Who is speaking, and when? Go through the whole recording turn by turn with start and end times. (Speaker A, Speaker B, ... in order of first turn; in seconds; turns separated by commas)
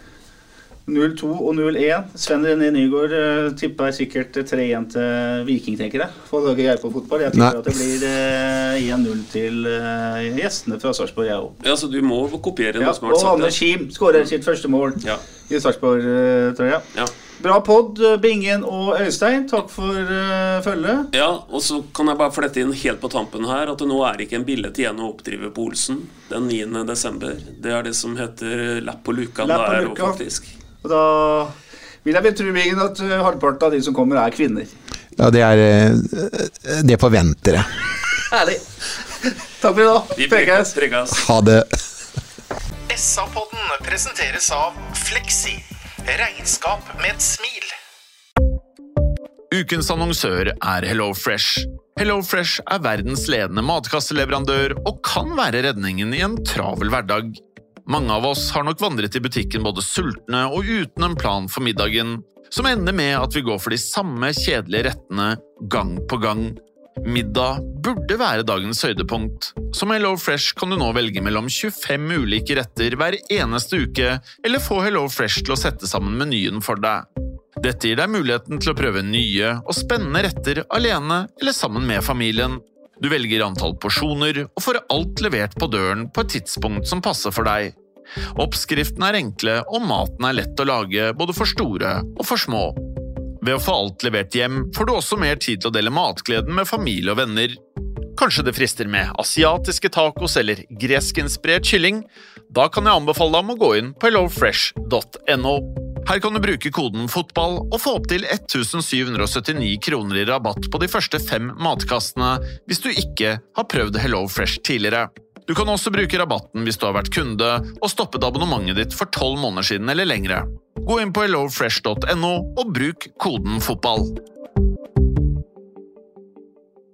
Speaker A: 0.8-11.5, Speaker B: 7.3-7.6, Speaker C: 11.6-13.6, Speaker A: 12.8-16.8, Speaker A: 17.4-21.1, Speaker C: 21.1-30.5, Speaker A: 29.4-30.2, Speaker A: 30.8-34.7, Speaker B: 35.2-37.7, Speaker A: 38.3-38.6, Speaker A: 39.2-40.7, Speaker C: 40.1-41.3, Speaker B: 41.1-41.7, Speaker D: 42.9-47.7, Speaker E: 49.5-77.0, Speaker E: 77.6-87.8, Speaker E: 88.3-92.8, Speaker E: 93.4-97.6, Speaker E: 98.2-124.2